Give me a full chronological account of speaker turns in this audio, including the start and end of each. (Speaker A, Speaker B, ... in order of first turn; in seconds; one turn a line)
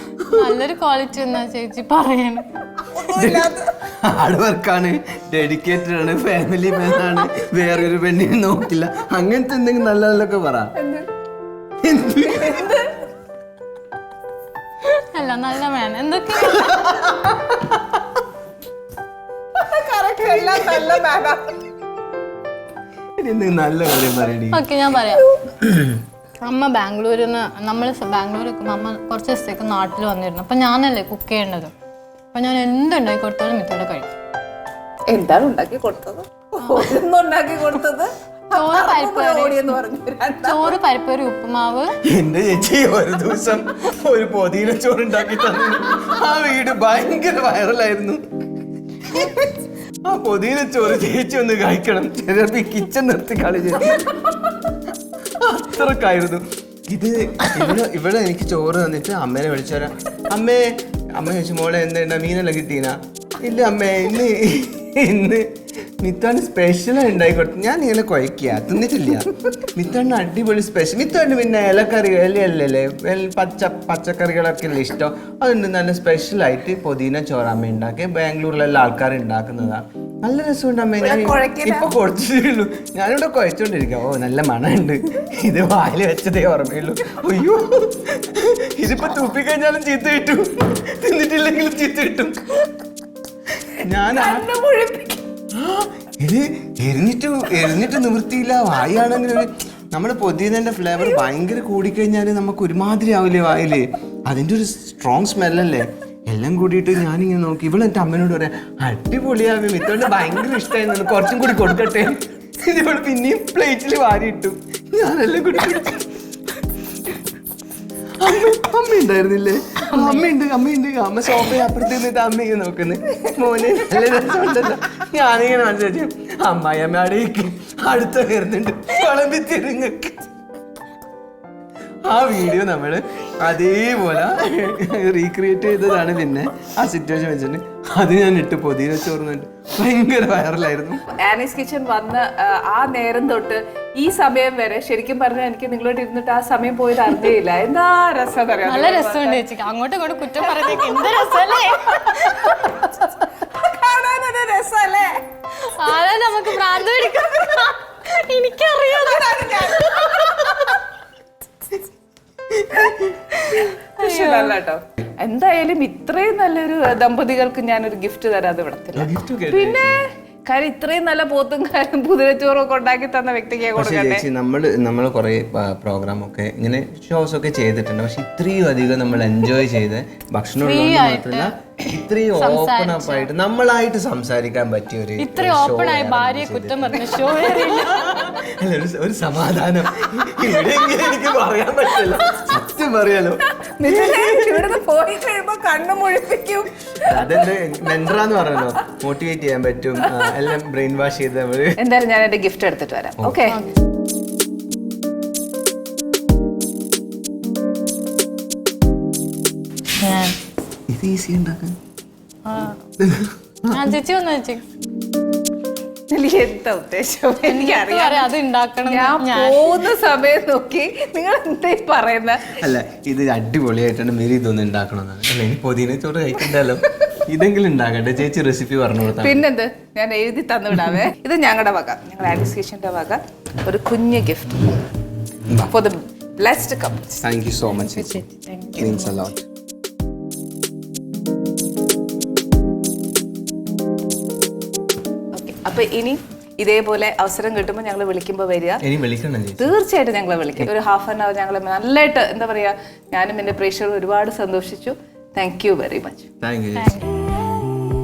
Speaker A: 0.2-0.6
Speaker B: 0.3-3.0
Speaker C: 2.9-3.7
Speaker A: 3.1-10.7
Speaker C: 10.7-11.1
Speaker A: 11.8-12.7
Speaker C: 12.2-13.0
Speaker B: 14.9-17.1
Speaker A: 16.4-18.0
Speaker C: 19.6-21.6
Speaker A: 23.2-24.6
Speaker B: 24.5-25.3
Speaker A: 25.6-26.0
Speaker B: 26.4-31.7
Speaker B: 32.3-34.1
Speaker C: 35.1-40.7
Speaker B: 38.5-39.8
Speaker B: 40.4-41.9
Speaker A: 42.0-48.2
Speaker A: 49.0-54.0
Speaker A: 55.4-92.3
Speaker C: 81.0-81.9
Speaker A: 93.8-94.5
Speaker C: 94.1-95.2
Speaker A: 95.5-116.1
Speaker A: 118.2-130.2
Speaker B: 119.8-120.3
Speaker A: 132.1-141.0
Speaker C: 141.2-149.4
Speaker B: 148.7-152.7
Speaker C: 150.4-155.2
Speaker B: 155.7-160.7
Speaker C: 158.9-160.8
Speaker A: 162.6-163.2
Speaker C: 163.3-174.2
Speaker B: 164.0-164.6
Speaker A: 168.9-170.0
Speaker A: 173.8-194.7
Speaker B: 180.6-181.5
Speaker B: 182.3-183.3
Speaker B: 185.2-188.3
Speaker C: 193.6-197.2
Speaker A: 197.0-201.8
Speaker C: 201.8-203.6
Speaker B: 210.0-210.3
Speaker A: 210.9-211.8
Speaker B: 212.4-212.8
Speaker A: 213.0-213.9
Speaker B: 213.7-214.6
Speaker C: 216.1-218.3
Speaker B: 217.4-219.9
Speaker C: 218.8-222.6
Speaker A: 222.5-229.4
Speaker C: 229.1-234.8
Speaker C: 235.6-237.2
Speaker A: 237.2-238.2
Speaker B: 237.7-239.3
Speaker A: 238.8-239.4
Speaker C: 245.3-248.8
Speaker A: 248.8-249.7
Speaker C: 249.6-256.3
Speaker A: 256.4-257.1
Speaker B: 256.7-257.2